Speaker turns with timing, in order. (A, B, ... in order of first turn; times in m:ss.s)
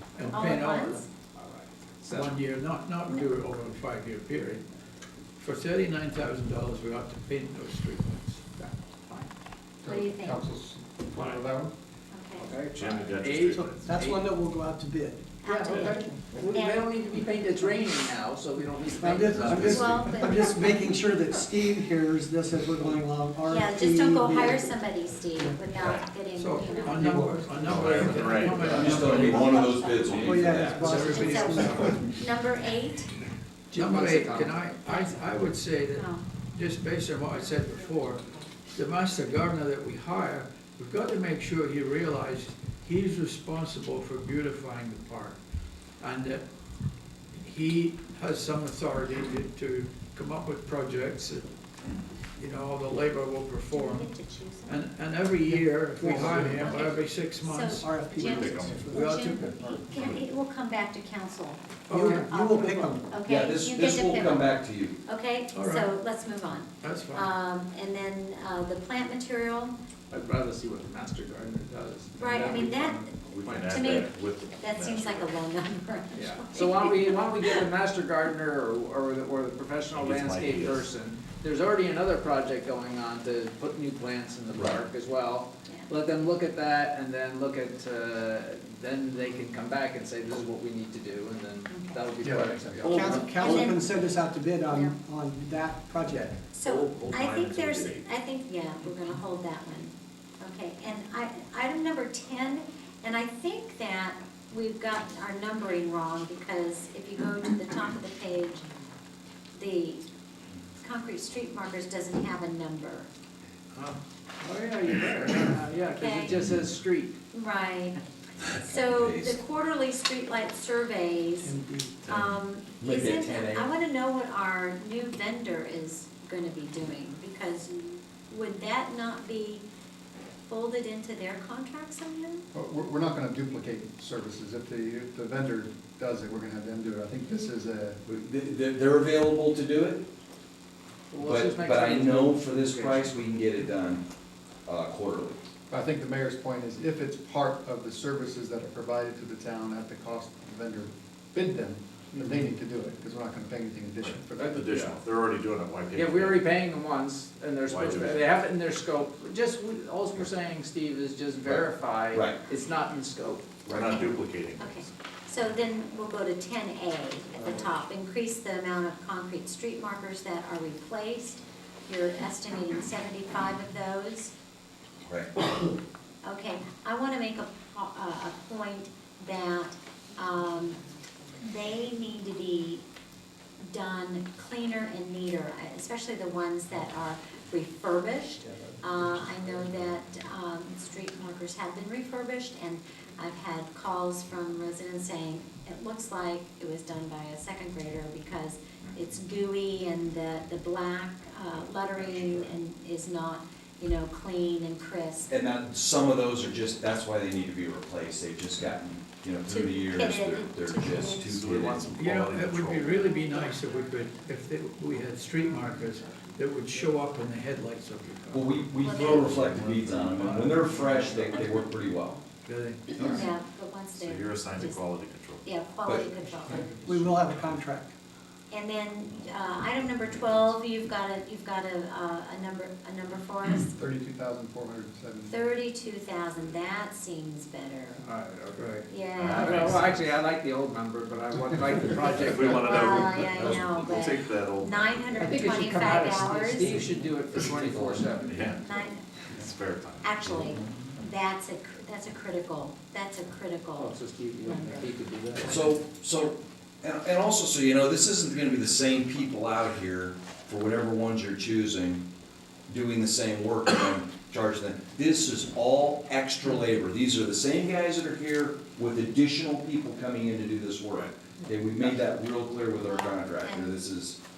0:00.2-0:01.0 A
0:00.3-0:01.1 B
0:01.4-0:02.4 C
0:02.1-0:04.6 A
0:05.4-0:08.7 A
0:09.8-0:11.7 D
0:09.9-0:10.4 B
0:12.1-0:12.5 B
0:12.4-0:14.3 C
0:12.8-0:14.0 E
0:13.8-0:15.2 F
0:15.4-0:16.0 B
0:15.4-0:20.1 C
0:16.5-0:16.9 B
0:19.0-0:24.8 F
0:19.6-0:21.0 B
0:23.5-0:27.9 B
0:25.4-0:25.6 F
0:25.8-0:26.0 E
0:26.4-0:29.5 A
0:26.9-0:27.6 F
0:27.6-0:29.3 E
0:28.4-0:33.1 B
0:28.6-0:30.9 G
0:30.3-0:32.0 F
0:30.8-0:32.1 A
0:33.7-0:38.2 A
0:33.8-0:34.6 C
0:34.9-0:35.2 B
0:35.9-0:36.2 B
0:38.8-0:45.4 A
0:46.0-0:46.4 A
0:47.4-0:51.5 A
0:52.4-0:54.1 A
0:53.7-0:54.8 B
0:54.7-0:57.9 A
0:55.5-0:56.8 F
0:56.2-1:09.8 B
0:57.8-0:59.0 F
0:58.2-0:58.8 E
0:58.6-0:59.7 A
1:01.9-1:02.3 A
1:01.9-1:03.1 F
1:03.3-1:05.0 G
1:05.5-1:05.9 A
1:06.8-1:07.3 A
1:10.1-1:13.7 C
1:12.2-1:17.6 B
1:13.3-1:15.4 E
1:16.1-1:33.8 C
1:19.9-1:20.9 E
1:24.5-1:24.8 G
1:31.7-1:32.0 B
1:32.2-1:32.6 D
1:32.8-1:36.5 F
1:33.0-1:34.1 B
1:34.7-1:35.0 B
1:36.5-1:48.6 B
1:36.6-1:38.1 E
1:49.5-1:50.0 B
1:50.8-1:53.1 B
1:54.4-1:57.2 C
1:55.9-1:56.4 B
1:57.3-1:58.0 B
1:58.4-1:59.4 G
1:58.6-2:09.6 B
2:01.4-2:02.0 F
2:02.8-2:03.7 G
2:10.5-2:12.4 B
2:12.5-2:18.0 D
2:18.1-2:20.0 G
2:21.1-2:23.3 C
2:21.2-2:24.0 G
2:24.7-2:25.4 G
2:25.7-2:35.0 D
2:32.2-2:32.4 C
2:34.0-2:36.5 E
2:35.9-2:43.5 C
2:37.7-2:38.3 E
2:41.4-2:42.4 G
2:43.7-2:44.9 E
2:43.7-2:54.3 B
2:55.0-2:55.3 G
2:56.2-3:00.8 B
3:01.4-3:02.8 B
3:03.6-3:25.3 B
3:22.0-3:22.5 E
3:25.3-3:31.9 G
3:29.5-3:32.0 B
3:31.2-3:33.2 E
3:32.0-3:38.7 A
3:33.2-3:33.5 B
3:38.3-3:42.2 G
3:38.8-3:39.3 B
3:39.0-3:40.4 E
3:40.1-3:41.3 A
3:41.1-3:41.4 E
3:42.4-3:43.2 A
3:43.0-3:44.9 B
3:43.9-3:45.5 E
3:45.4-3:46.7 B
3:45.8-3:46.1 G
3:46.3-3:47.9 F
3:46.5-3:46.8 A
3:46.9-3:47.6 E
3:48.5-3:53.8 B
3:50.0-3:50.5 E
3:53.7-3:55.3 D
3:55.3-3:58.0 B
3:58.0-3:58.8 C
3:58.5-3:58.9 A
3:58.9-3:59.7 B
3:59.2-4:00.2 E
3:59.3-4:03.2 C
4:02.1-4:05.6 E
4:02.5-4:06.9 B
4:05.2-4:08.5 C
4:06.6-4:10.6 E
4:08.5-4:09.0 B
4:10.0-4:14.9 B
4:13.8-4:15.6 C
4:15.4-4:22.0 G
4:22.7-4:34.2 G
4:32.8-4:33.8 B